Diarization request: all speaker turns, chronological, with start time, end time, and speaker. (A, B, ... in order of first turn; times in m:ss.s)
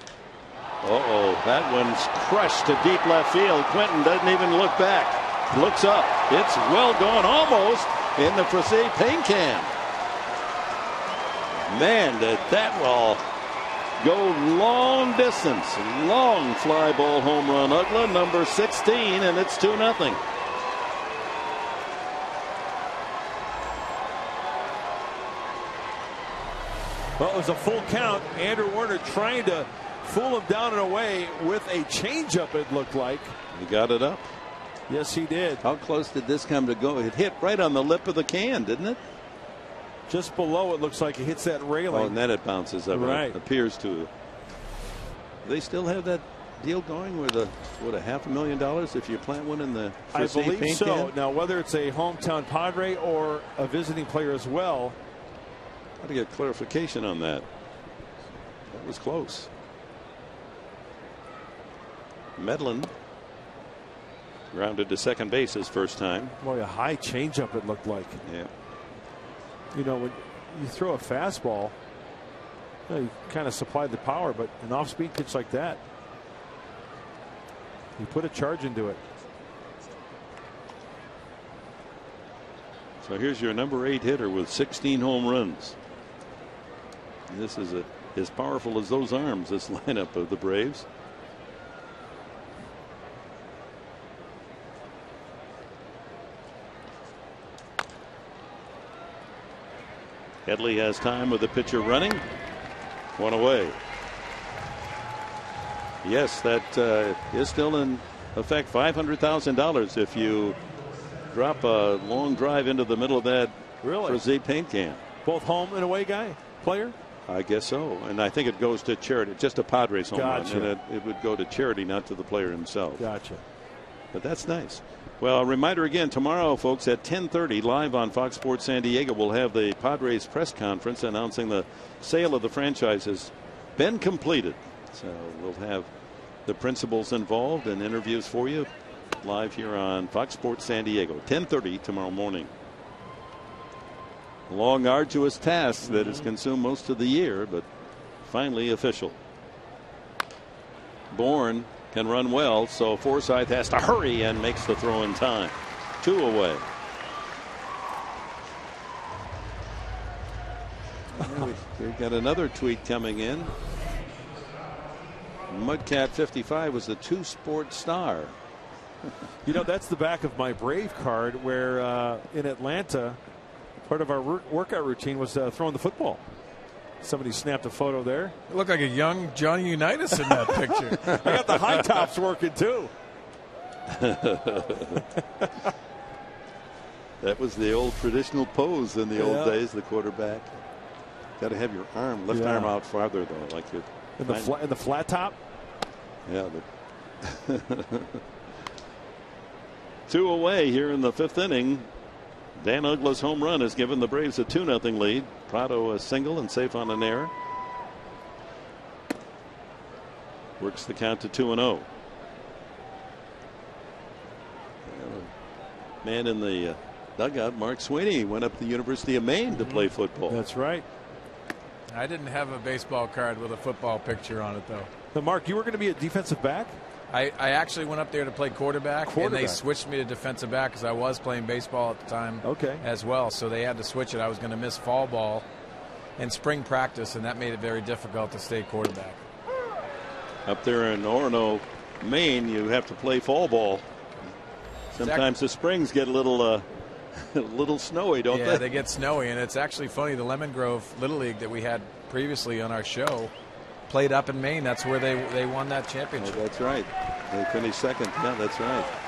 0:00.8-0:09.7 A
0:11.6-0:13.2 A
0:14.0-0:20.2 A
0:27.2-0:33.4 B
0:33.5-0:34.3 A
0:34.9-0:35.6 B
0:35.6-0:39.0 A
0:40.1-0:42.2 B
0:41.9-0:44.1 A
0:42.9-0:43.4 B
0:45.4-0:51.1 A
0:50.1-0:55.0 B
0:56.0-0:57.5 A
0:58.7-0:59.5 A
1:02.4-1:02.9 A
1:04.5-1:06.4 A
1:06.4-1:08.2 B
1:08.2-1:08.5 A
1:09.7-1:11.8 B
1:12.9-1:15.8 B
1:18.0-1:19.0 B
1:23.0-1:25.8 A
1:27.3-1:30.9 A
1:40.5-1:42.3 A
1:43.2-1:43.8 A
1:46.0-1:50.6 A
1:51.3-1:55.0 A
1:53.8-1:54.2 B
1:55.2-1:57.0 B
1:57.3-2:03.0 A
2:00.1-2:00.7 B
2:03.0-2:03.4 B
2:04.1-2:15.9 A
2:16.4-2:22.5 A
2:24.5-2:27.7 A
2:28.2-2:29.2 A
2:31.1-2:36.7 A
2:41.2-2:43.5 A
2:45.5-2:48.4 A
2:49.4-2:53.2 B
2:53.8-2:56.2 B
2:57.0-2:58.4 B
2:58.5-3:02.0 C
3:00.5-3:02.9 B
3:03.9-3:05.1 A
3:07.2-3:10.6 A
3:09.2-3:09.6 B
3:11.4-3:14.6 A
3:12.3-3:12.8 B
3:14.2-3:15.4 B
3:16.3-3:16.7 A
3:17.2-3:18.2 A
3:20.1-3:21.9 A
3:22.6-3:27.3 A
3:30.6-3:31.9 A
3:34.8-3:35.3 A
3:36.0-3:40.4 A
3:40.3-3:40.8 B
3:41.9-3:44.9 C
3:45.1-3:46.8 B
3:47.1-3:55.4 C
3:49.0-3:49.6 B
3:52.4-3:52.9 B
3:56.2-3:59.2 C
4:00.5-4:03.9 A
4:04.9-4:08.7 A
4:08.3-4:13.3 C
4:13.9-4:16.4 C
4:16.2-4:18.9 A